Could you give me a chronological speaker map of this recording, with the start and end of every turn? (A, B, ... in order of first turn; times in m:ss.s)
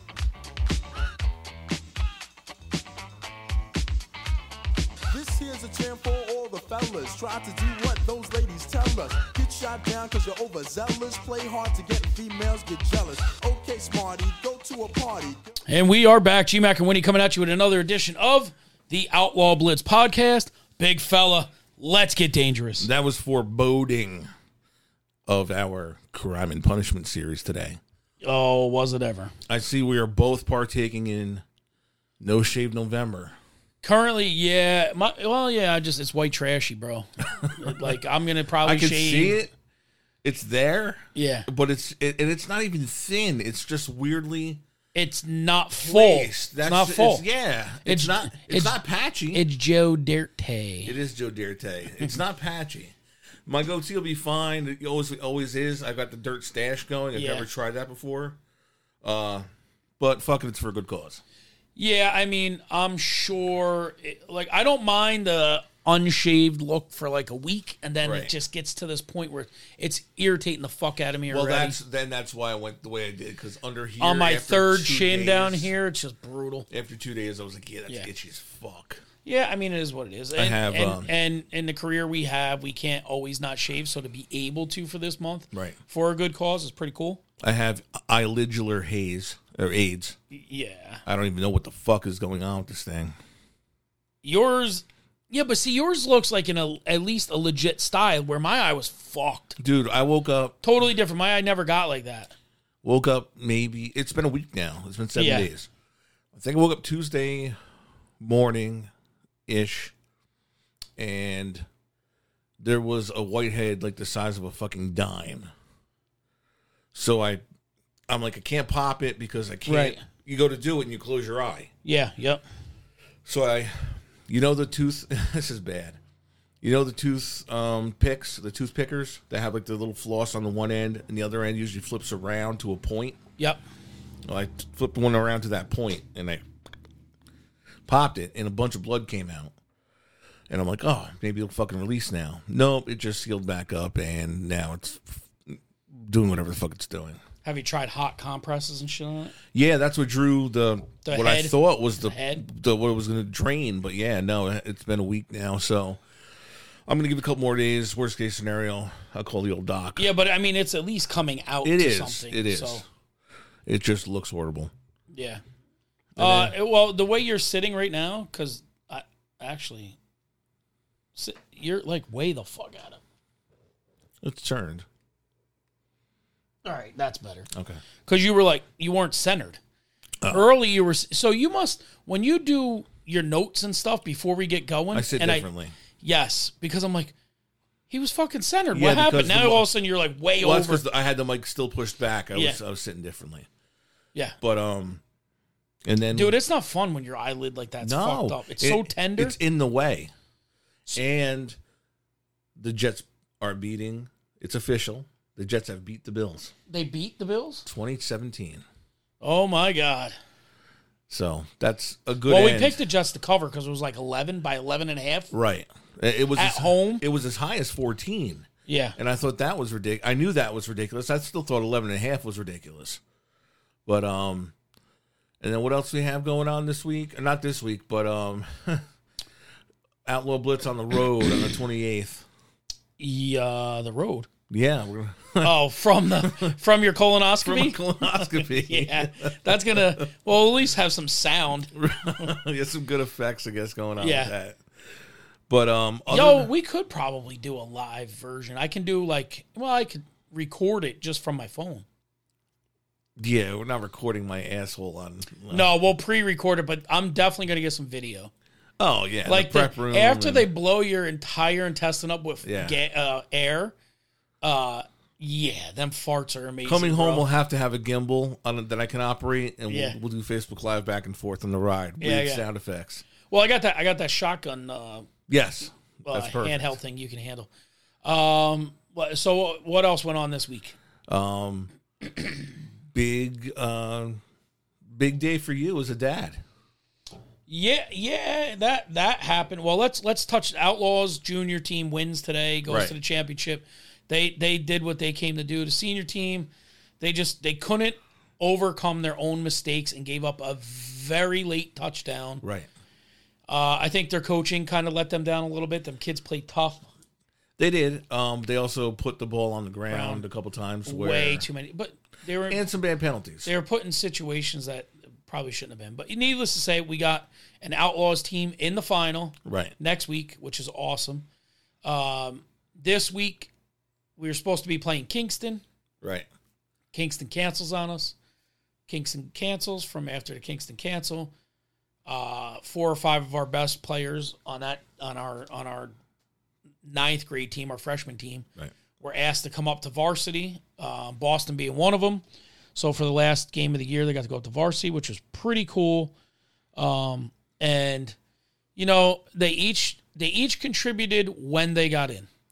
0:05.1-0:15.5 A
0:15.7-0:22.9 B
0:22.8-0:24.3 C
0:25.2-0:27.8 C
0:28.2-0:29.3 B
0:29.5-0:31.4 C
0:32.2-0:33.4 C
0:33.8-0:39.4 B
0:37.4-0:37.9 C
0:38.6-0:39.5 C
0:40.2-0:44.6 C
0:41.1-0:41.5 B
0:44.9-0:47.2 B
0:45.8-0:49.4 C
0:47.8-0:48.8 B
0:49.3-0:50.9 B
0:50.8-0:52.9 C
0:53.4-0:58.4 C
0:57.1-0:57.5 B
0:59.0-0:59.5 C
1:00.0-1:01.2 C
1:01.8-1:11.8 B
1:08.0-1:08.3 C
1:11.3-1:15.7 C
1:14.0-1:16.7 B
1:16.7-1:19.0 C
1:19.2-1:27.2 B
1:20.4-1:21.1 C
1:25.5-1:25.8 C
1:27.4-1:30.2 C
1:30.3-1:31.0 B
1:31.0-1:33.2 C
1:34.2-1:39.6 B
1:39.6-1:40.6 C
1:40.6-1:42.3 B
1:42.8-1:45.7 C
1:45.1-1:45.5 B
1:46.3-1:47.6 C
1:48.2-1:48.9 C
1:49.5-1:49.9 C
1:51.0-1:51.7 C
1:52.6-1:55.5 C
1:56.9-1:57.4 C
1:58.1-2:01.7 C
1:59.7-2:00.0 B
2:01.8-2:02.4 B
2:03.2-2:06.0 C
2:06.6-2:13.2 C
2:14.2-2:16.4 C
2:17.8-2:19.5 C
2:20.5-2:27.2 C
2:27.4-2:29.3 B
2:29.5-2:36.0 C
2:31.0-2:32.4 B
2:36.9-2:40.1 C
2:40.0-2:42.8 B
2:41.6-2:42.8 C
2:43.6-2:44.7 C
2:45.1-2:45.4 B
2:46.2-2:46.5 C
2:46.2-2:50.0 B
2:51.2-2:53.0 B
2:54.2-2:54.8 C
2:56.6-2:57.5 B
2:57.5-2:57.8 C
2:58.0-2:59.6 B
3:00.3-3:05.5 B
3:04.9-3:05.7 C
3:06.0-3:07.1 B
3:07.9-3:10.8 B
3:08.7-3:09.7 C
3:10.4-3:13.5 C
3:12.3-3:12.6 B
3:14.4-3:15.0 C
3:15.8-3:16.4 C
3:16.1-3:19.4 B
3:17.8-3:20.1 C
3:20.9-3:21.6 C
3:22.6-3:26.5 C
3:26.7-3:27.6 B
3:27.6-3:28.6 C
3:29.2-3:30.2 B
3:31.1-3:32.8 C
3:32.2-3:35.3 B
3:35.3-3:43.0 C
3:36.4-3:37.0 B
3:38.7-3:39.0 B
3:43.8-3:44.5 C
3:45.4-3:48.8 C
3:50.0-3:52.2 C
3:53.0-3:54.3 B
3:54.5-3:55.6 C
3:55.4-4:01.7 B
3:56.2-3:56.6 C
3:57.4-4:00.0 C
4:01.7-4:04.6 C
4:04.0-4:04.3 B
4:05.5-4:06.5 C
4:06.1-4:11.8 B
4:13.2-4:15.7 C
4:15.5-4:18.3 B
4:18.8-4:20.5 C
4:19.2-4:23.7 B
4:22.4-4:22.8 C
4:24.4-4:27.3 B
4:26.6-4:33.0 C
4:29.7-4:30.0 B
4:32.0-4:32.4 B
4:33.3-4:35.1 B
4:35.3-4:36.7 C
4:36.1-4:37.5 B
4:38.0-4:40.7 B
4:41.1-4:41.7 C
4:42.9-4:44.2 C
4:44.8-4:46.4 C
4:47.5-5:02.4 B
4:52.7-4:52.9 C
5:02.4-5:02.7 C
5:03.5-5:06.9 B
5:07.6-5:11.4 C
5:09.9-5:10.2 B
5:10.8-5:12.7 B
5:12.5-5:13.5 C
5:13.4-5:21.2 B
5:19.4-5:19.7 C
5:21.8-5:23.5 B
5:24.2-5:25.6 B
5:26.0-5:26.3 C
5:26.9-5:28.1 B
5:28.9-5:31.3 B
5:32.0-5:35.9 B
5:36.8-5:38.5 B
5:39.0-5:42.2 B
5:42.7-5:46.1 B
5:46.8-5:48.2 B
5:48.8-5:52.3 B